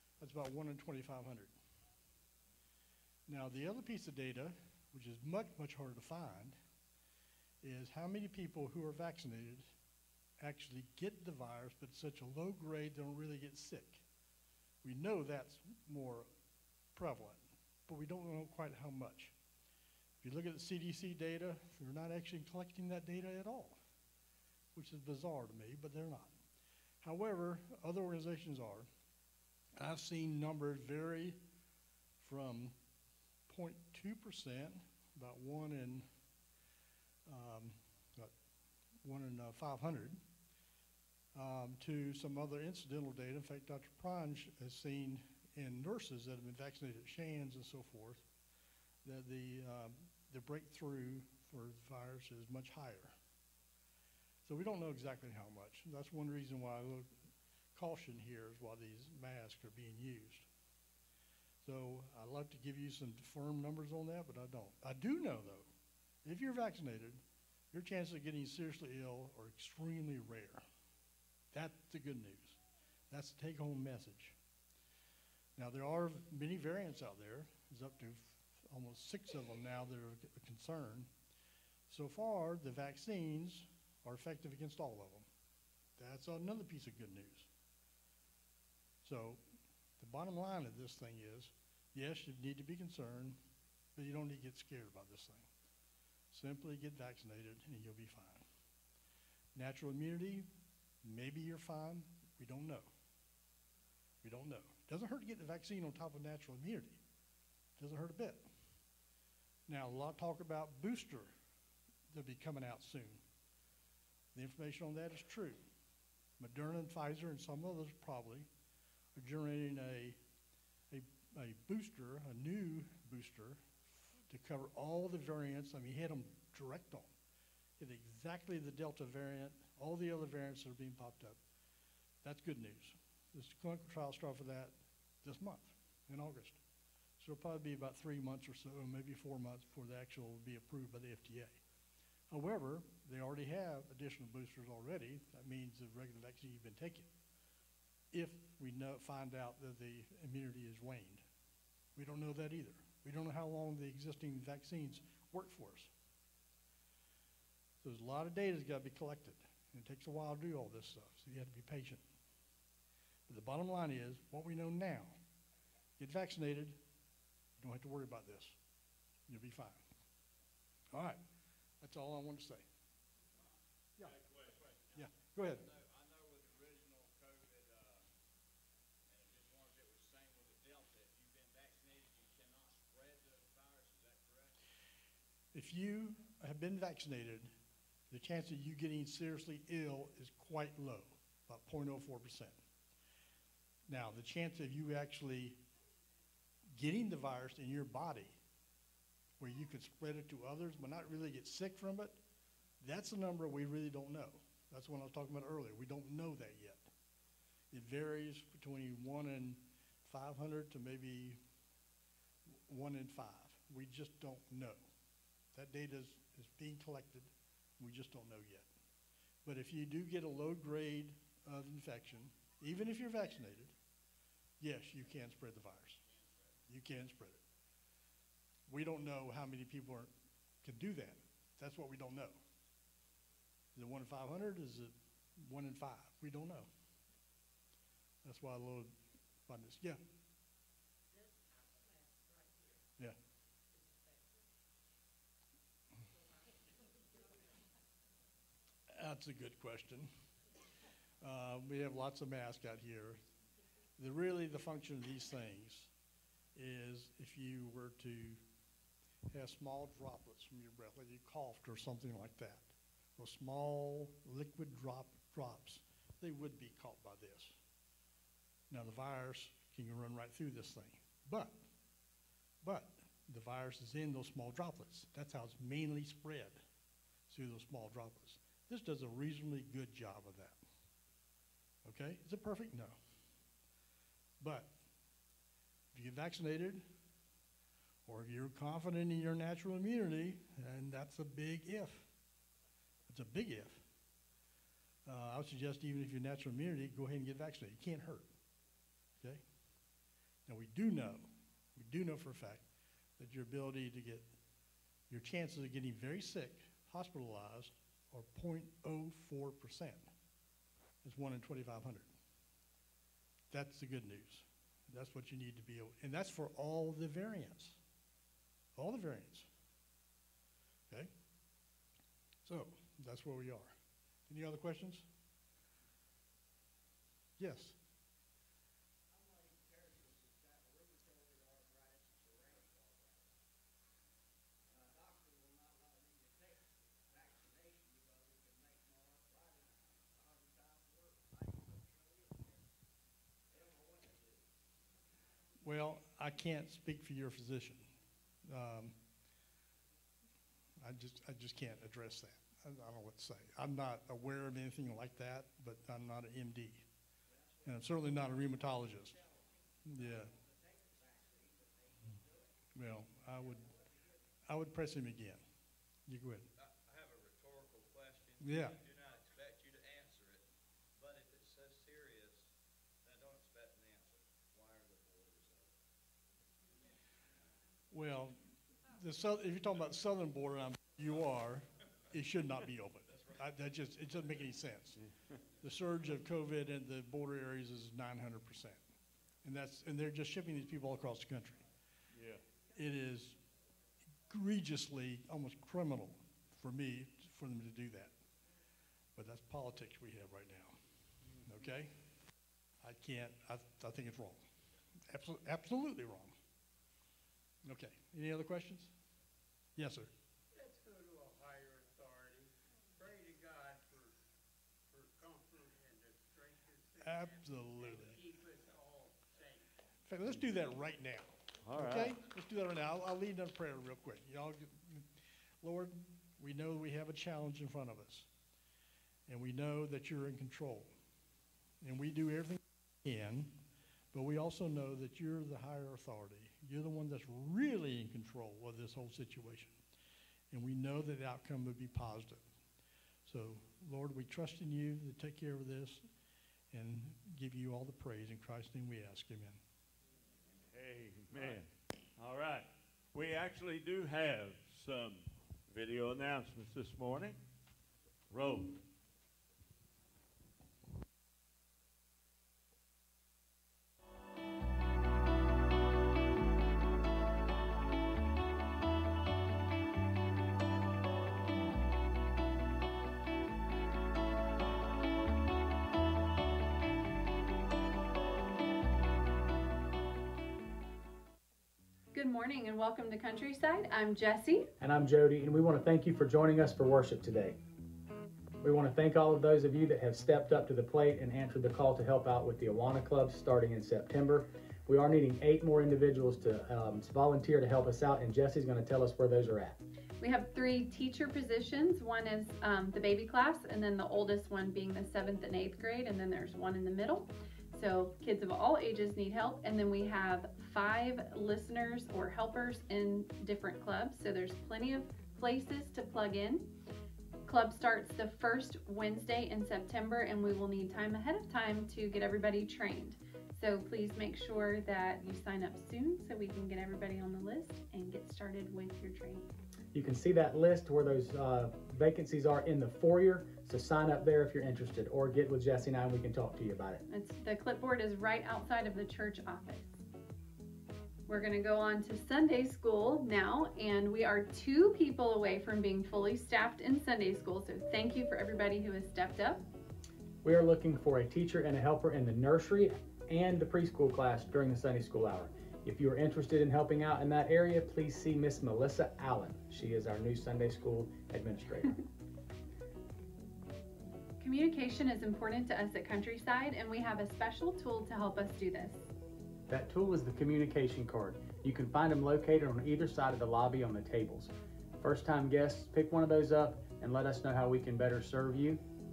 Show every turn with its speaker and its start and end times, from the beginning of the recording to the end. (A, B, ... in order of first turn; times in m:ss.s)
0:00.2-0:01.5 A
0:03.3-0:06.6 A
0:07.6-0:09.6 A
0:10.4-0:14.0 A
0:14.8-0:16.3 A
0:16.9-0:19.3 A
0:20.2-0:23.8 A
0:24.8-0:26.4 A
0:27.0-0:28.9 A
0:29.8-0:31.4 A
0:32.2-0:32.8 A
0:33.5-0:36.0 A
0:37.2-0:38.3 A
0:39.0-0:40.2 A
0:41.3-0:48.2 A
0:49.0-0:53.1 A
0:54.4-0:57.1 A
0:57.8-1:00.4 A
1:01.6-1:05.7 A
1:06.2-1:10.6 A
1:11.5-1:14.4 A
1:15.6-1:21.1 A
1:21.9-1:25.3 A
1:26.0-1:27.5 A
1:29.0-1:29.4 A
1:30.0-1:33.4 A
1:33.9-1:35.5 A
1:36.3-1:38.4 A
1:39.5-1:40.5 A
1:41.0-1:42.9 A
1:44.2-1:47.0 A
1:47.8-1:48.5 A
1:49.7-1:51.3 A
1:52.1-1:53.2 A
1:54.3-1:55.6 A
1:56.4-1:58.5 A
1:59.1-2:00.2 A
2:00.9-2:07.1 A
2:07.8-2:11.4 A
2:12.2-2:16.6 A
2:17.2-2:21.6 A
2:22.3-2:27.1 A
2:28.1-2:31.2 A
2:31.9-2:35.9 A
2:37.8-2:42.0 A
2:43.3-2:45.2 A
2:46.0-2:46.8 A
2:47.6-2:48.6 A
2:49.3-2:49.8 A
2:50.9-2:51.2 A
2:51.8-2:52.6 A
2:54.0-2:58.1 B
2:54.9-2:55.7 A
2:59.1-3:04.5 B
3:05.5-3:07.5 A
3:08.1-3:12.6 A
3:13.9-3:15.6 A
3:16.7-3:18.4 A
3:19.4-3:22.2 A
3:22.8-3:26.9 A
3:27.7-3:31.4 A
3:32.7-3:34.8 A
3:35.5-3:38.7 A
3:39.4-3:43.7 A
3:44.6-3:46.0 A
3:46.7-3:47.4 A
3:48.7-3:50.1 A
3:50.6-3:52.4 A
3:53.7-3:56.7 A
3:58.2-4:00.0 A
4:08.9-4:10.1 A
4:11.2-4:13.2 A
4:14.0-4:15.9 A
4:16.6-4:18.4 A
4:19.3-4:27.5 A
4:28.7-4:31.6 A
4:32.6-4:36.6 A
4:37.3-4:40.6 A
4:41.8-4:43.0 A
4:44.4-4:44.7 A
4:45.9-4:46.8 A
4:48.1-4:52.1 A
4:53.1-4:53.8 A
4:55.0-4:58.3 A
5:00.4-5:02.6 A
5:03.2-5:04.3 A
5:05.1-5:10.1 A
5:11.0-5:12.1 A
5:13.5-5:17.8 A
5:18.7-5:19.5 A
5:22.4-5:23.7 A
5:24.3-5:25.0 A
5:27.4-5:27.8 A
5:32.2-5:32.9 B
5:34.7-5:36.0 B
5:43.5-5:44.4 B
5:45.6-5:47.8 A
5:48.4-5:49.0 A
5:50.8-5:56.9 A
5:57.6-5:59.2 A
5:59.8-6:00.3 A
6:02.7-6:03.7 A
6:04.4-6:05.4 A
6:06.1-6:06.5 A
6:06.6-6:10.4 B
6:08.4-6:08.8 A
6:11.0-6:12.5 B
6:13.0-6:15.7 B
6:17.9-6:18.4 A
6:18.9-6:25.0 A
6:25.6-6:28.8 A
6:29.4-6:31.6 A
6:32.1-6:32.4 C
6:32.7-6:33.4 A
6:34.3-6:38.1 A
6:39.1-6:40.8 A
6:41.4-6:41.9 A
6:42.8-6:44.4 A
6:45.1-6:46.4 A
6:47.6-6:48.9 A
6:49.8-6:50.1 A
6:57.0-6:58.3 A
7:00.1-7:08.3 A
7:01.6-7:02.2 C
7:09.3-7:10.9 A
7:11.8-7:13.6 A
7:14.1-7:19.8 A
7:20.5-7:22.4 A
7:23.2-7:26.0 A
7:26.7-7:29.6 A
7:30.7-7:37.4 C
7:38.3-7:38.8 C
8:02.1-8:04.7 D
8:04.8-8:07.6 E
8:08.6-8:19.8 E
8:20.2-8:36.7 D
8:37.4-8:49.4 D
8:49.9-8:57.0 E
8:57.1-8:59.9 D
9:01.3-9:09.7 D
9:10.4-9:22.0 E
9:24.4-9:29.1 D
9:29.7-9:38.8 E